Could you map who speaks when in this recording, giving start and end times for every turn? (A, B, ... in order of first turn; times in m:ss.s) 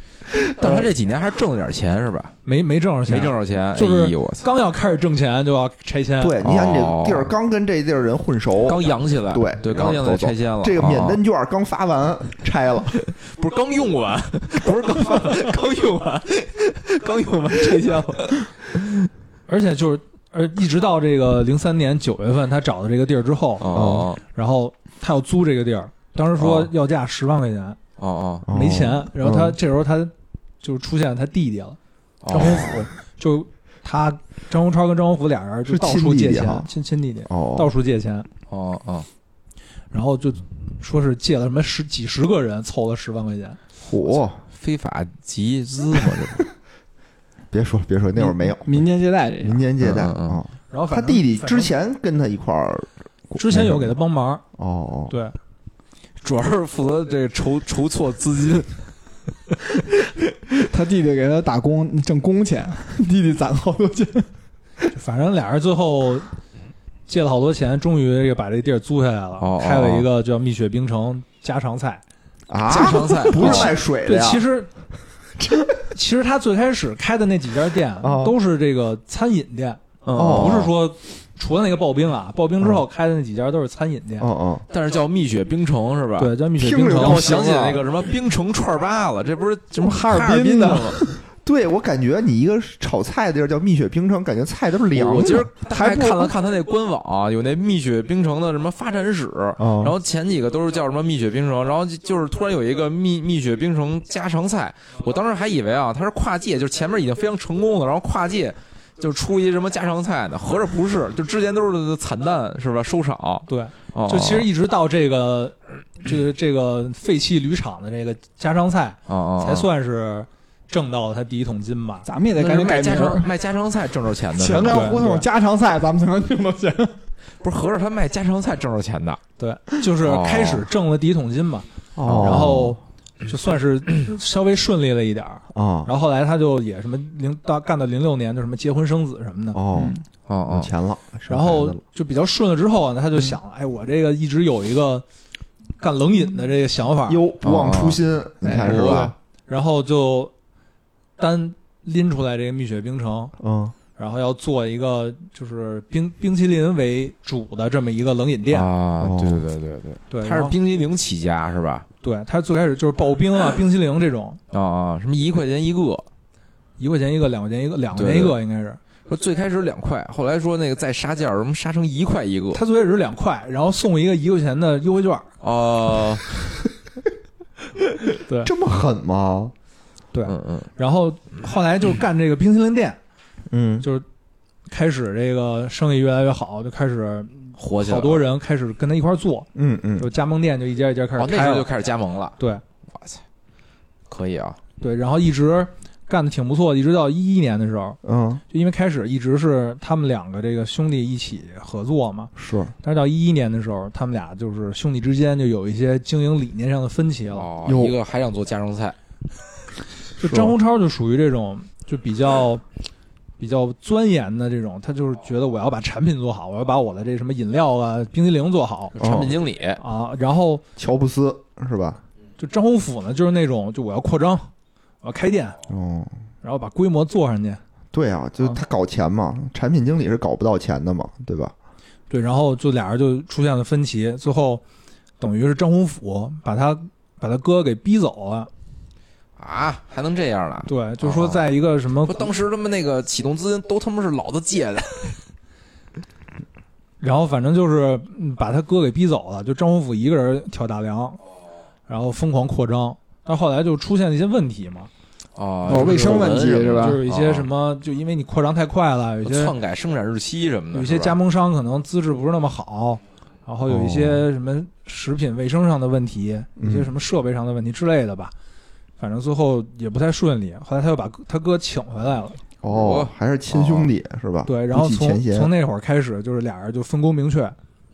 0:00.5-0:02.3 A
0:00.6-0:00.9 B
0:02.4-0:06.4 C
0:03.1-0:04.5 A
0:06.2-0:13.0 B
0:06.4-0:07.3 A
0:08.6-0:11.2 A
0:13.2-0:19.1 A
0:19.5-0:23.7 C
0:23.6-0:24.2 A
0:23.7-0:24.1 B
0:24.2-0:27.8 C
0:26.4-0:26.7 A
0:28.0-0:28.4 A
0:28.4-0:29.6 B
0:28.5-0:31.8 C
0:32.2-0:32.8 A
0:32.3-0:38.3 C
0:35.7-0:36.7 B
0:37.3-0:37.7 B
0:38.5-0:39.1 A
0:39.9-0:43.6 C
0:43.8-0:44.4 B
0:44.5-0:46.4 A
0:47.5-0:48.8 B
0:48.2-0:49.6 D
0:49.4-0:53.9 B
0:49.8-0:50.4 A
0:50.7-0:51.7 C
0:53.4-0:54.4 C
0:54.6-0:55.1 B
0:55.1-0:55.4 C
0:56.2-0:58.8 A
1:00.5-1:04.3 D
1:04.9-1:06.3 C
1:07.1-1:12.0 C
1:09.4-1:10.1 A
1:12.5-1:14.4 B
1:12.7-1:13.8 A
1:13.4-1:14.7 C
1:15.4-1:15.7 B
1:15.9-1:24.3 C
1:18.0-1:18.4 B
1:20.0-1:20.7 A
1:20.1-1:20.7 B
1:24.2-1:24.6 B
1:24.7-1:26.3 A
1:26.2-1:27.5 C
1:26.6-1:27.8 B
1:26.9-1:31.0 A
1:29.8-1:31.2 D
1:31.4-1:35.5 B
1:34.9-1:54.5 A
1:35.2-1:36.3 D
1:39.6-1:39.9 B
1:53.5-2:02.1 C
1:59.1-1:59.7 A
2:02.0-2:03.3 D
2:02.4-2:05.0 A
2:04.4-2:07.0 D
2:04.6-2:05.3 C
2:07.4-2:09.2 A
2:09.4-2:19.6 C
2:10.0-2:10.6 A
2:12.0-2:12.8 B
2:12.0-2:12.6 A
2:15.5-2:15.9 B
2:19.5-2:20.0 B
2:19.7-2:20.0 D
2:20.3-2:20.7 A
2:20.5-2:21.8 B
2:21.3-2:25.0 C
2:25.8-2:27.2 C
2:27.1-2:29.1 B
2:27.4-2:29.1 A
2:28.6-2:30.3 C
2:31.2-2:33.3 C
2:33.4-2:33.7 B
2:34.0-2:38.7 C
2:38.5-2:41.8 A
2:39.0-2:39.4 B
2:40.1-2:40.6 C
2:42.0-2:44.4 C
2:44.5-2:46.0 A
2:46.8-2:48.8 C
2:47.9-2:48.4 A
2:49.1-2:52.6 A
2:52.5-2:55.3 C
2:55.4-2:56.3 A
2:58.4-2:59.5 B
3:00.1-3:03.0 C
3:00.3-3:00.7 A
3:03.5-3:03.8 B
3:04.7-3:11.7 C
3:07.6-3:08.2 A
3:09.5-3:10.1 B
3:11.2-3:12.4 A
3:12.9-3:13.2 A
3:14.1-3:14.6 A
3:14.8-3:18.0 C
3:18.0-3:18.4 B
3:18.5-3:27.5 C
3:22.4-3:22.7 B
3:27.3-3:29.0 A
3:27.6-3:28.0 B
3:30.2-3:32.6 C
3:30.2-3:30.5 B
3:33.4-3:39.0 C
3:38.9-3:39.8 A
3:39.0-3:39.3 B
3:39.8-3:40.6 C
3:40.8-3:42.0 B
3:42.4-3:44.5 C
3:45.0-3:45.6 C
3:45.7-3:46.1 B
3:46.4-3:47.6 C
3:47.9-3:51.5 B
3:52.1-3:54.6 C
3:55.2-3:58.5 C
3:59.4-4:01.4 A
4:00.6-4:02.3 C
4:02.0-4:05.2 A
4:07.0-4:11.2 C
4:11.9-4:14.9 C
4:15.4-4:17.5 A
4:15.6-4:17.0 D
4:15.7-4:19.5 C
4:19.2-4:21.2 A
4:20.7-4:28.3 C
4:23.7-4:24.2 B
4:26.6-4:26.9 B
4:29.0-4:32.4 C
4:32.6-4:35.5 B
4:32.7-4:33.9 A
4:34.4-4:37.5 C